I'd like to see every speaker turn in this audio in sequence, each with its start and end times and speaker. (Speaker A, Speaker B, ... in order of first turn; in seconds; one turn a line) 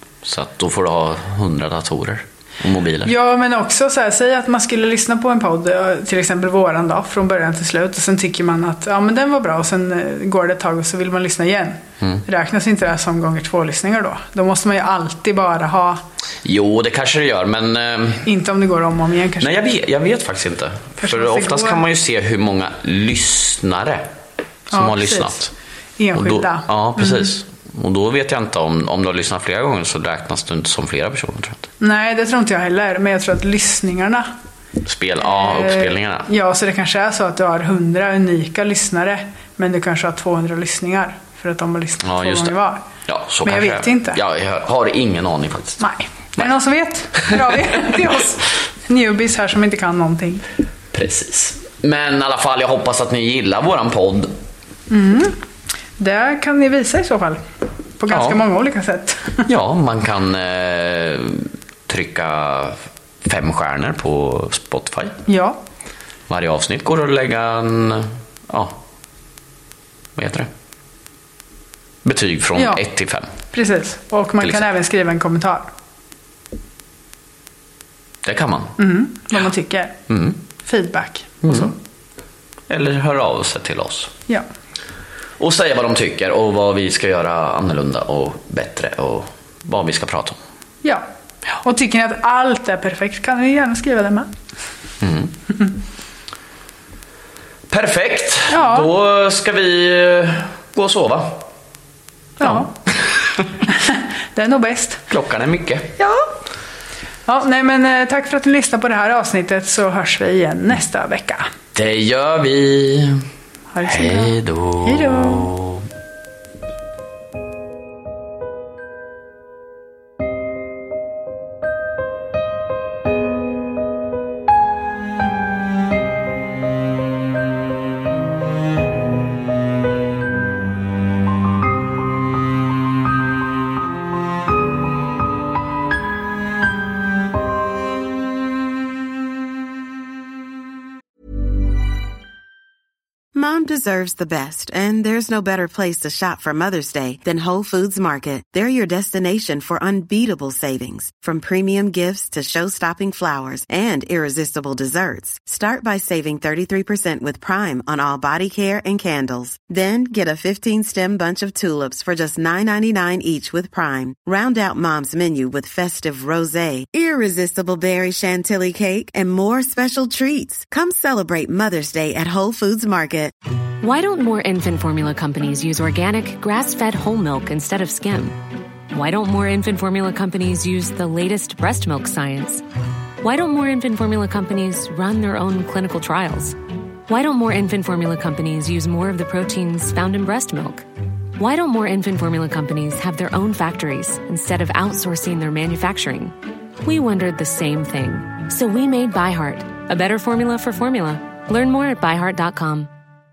Speaker A: 0.2-3.1
Speaker B: 3.0-16.0
Speaker A: 16.4-18.2
Speaker B: 18.2-19.6
Speaker A: 19.4-24.1
Speaker B: 21.0-21.8
Speaker A: 24.7-25.5
Speaker B: 24.7-25.4
Speaker B: 26.0-27.3
Speaker A: 26.1-31.7
Speaker B: 31.8-34.3
Speaker A: 34.9-36.3
Speaker B: 35.2-42.8
Speaker A: 42.0-42.5
Speaker A: 43.1-45.8
Speaker B: 43.5-44.2
Speaker B: 45.8-50.4
Speaker A: 47.2-47.9
Speaker A: 50.9-54.3
Speaker B: 54.9-55.4
Speaker B: 56.0-57.4
Speaker B: 58.0-59.5
Speaker A: 58.1-58.4
Speaker A: 59.5-65.2
Speaker B: 65.3-65.6
Speaker A: 66.3-68.8
Speaker A: 70.2-70.5
Speaker A: 72.0-73.3
Speaker B: 73.5-75.7
Speaker A: 74.4-74.7
Speaker A: 78.2-78.8
Speaker B: 78.8-80.0
Speaker A: 80.1-80.4
Speaker B: 80.7-81.7
Speaker A: 81.4-81.7
Speaker A: 82.7-84.1
Speaker A: 85.4-90.4
Speaker B: 91.6-94.3
Speaker A: 95.0-95.3
Speaker A: 97.7-101.4
Speaker B: 98.5-98.9
Speaker B: 102.4-102.7
Speaker A: 102.4-103.6
Speaker B: 103.7-105.0
Speaker A: 105.1-105.9
Speaker B: 106.0-106.3
Speaker B: 107.3-111.5
Speaker A: 111.8-113.2
Speaker B: 113.7-115.5
Speaker A: 113.9-115.8
Speaker C: 143.3-173.3
Speaker D: 173.8-178.4
Speaker D: 178.9-182.6
Speaker D: 183.2-186.6
Speaker D: 187.1-190.8
Speaker D: 191.4-202.9